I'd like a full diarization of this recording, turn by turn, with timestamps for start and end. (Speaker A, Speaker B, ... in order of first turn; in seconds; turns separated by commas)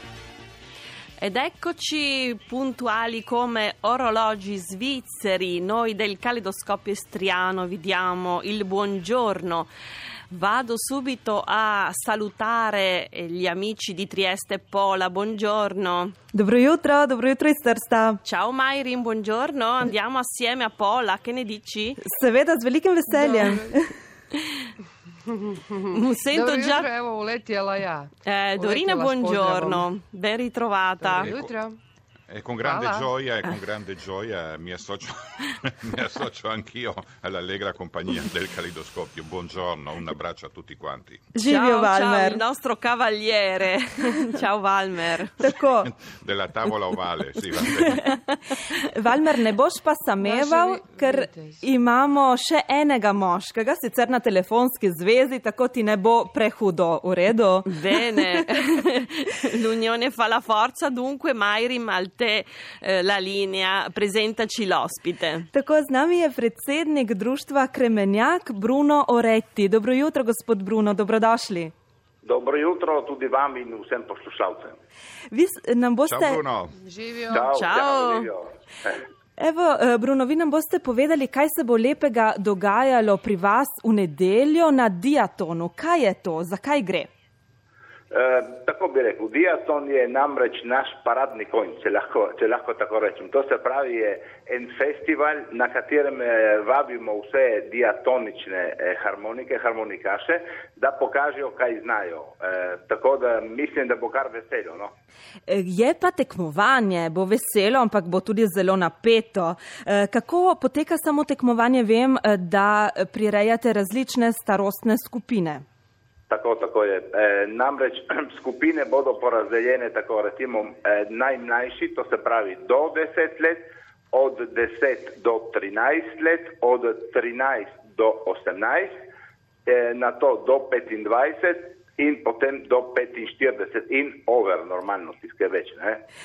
Speaker A: 1.2-9.7, Speaker A: 10.3-16.1, Speaker B: 16.3-18.2, Speaker A: 18.2-22.0, Speaker B: 22.0-23.9, Speaker C: 23.1-23.7, Speaker C: 25.3-29.9, Speaker A: 25.9-26.9, Speaker A: 28.2-31.3, Speaker C: 31.0-31.8, Speaker D: 31.2-31.5, Speaker D: 32.3-41.2, Speaker C: 32.6-33.1, Speaker B: 41.3-42.4, Speaker A: 41.5-45.3, Speaker B: 45.4-45.9, Speaker D: 45.8-48.1, Speaker B: 48.8-58.4, Speaker C: 50.2-51.6, Speaker A: 57.7-65.5, Speaker B: 65.5-71.7, Speaker E: 72.2-74.7, Speaker B: 75.3-76.4, Speaker D: 76.1-76.8, Speaker C: 76.8-77.5, Speaker E: 77.3-79.0, Speaker A: 77.5-78.3, Speaker B: 79.4-87.1, Speaker E: 88.1-104.9, Speaker B: 105.5-115.6, Speaker E: 116.3-128.9, Speaker E: 129.7-136.0